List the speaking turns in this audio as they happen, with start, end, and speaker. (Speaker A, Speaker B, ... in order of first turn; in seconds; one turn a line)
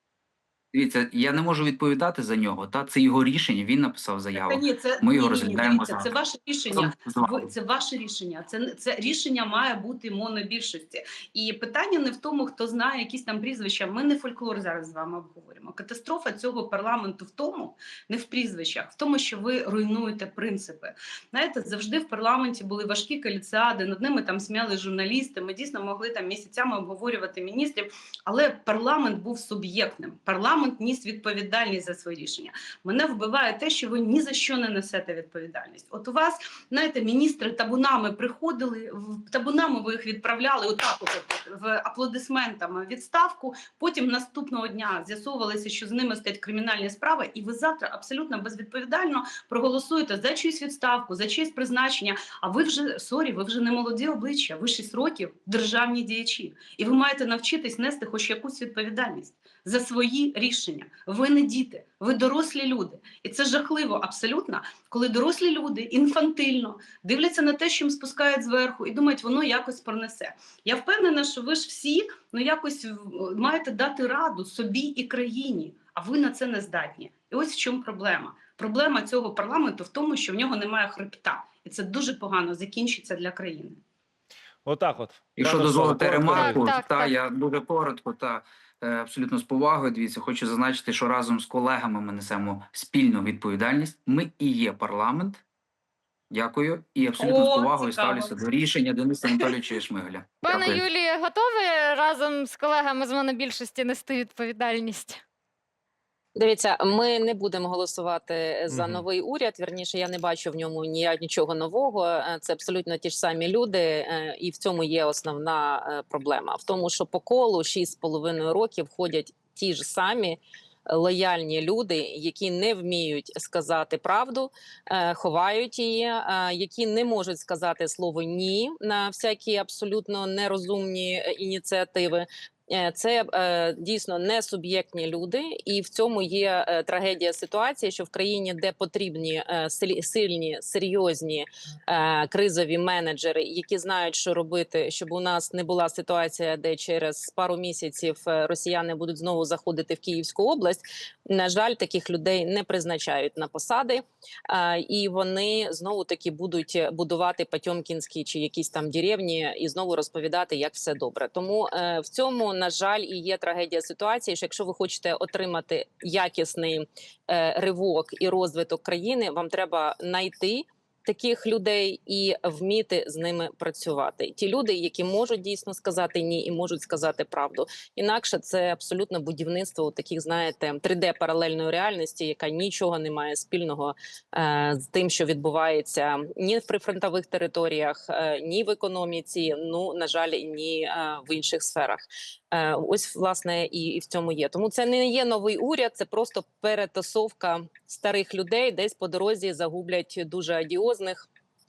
Speaker A: 0.7-6.1
Speaker B: 4.4-83.8
Speaker A: 6.7-7.5
Speaker C: 84.6-86.6
Speaker A: 85.4-95.4
Speaker D: 86.3-87.1
Speaker A: 96.3-100.8
Speaker B: 97.2-98.3
Speaker D: 100.4-105.2
Speaker E: 106.3-201.3
Speaker C: 108.7-109.0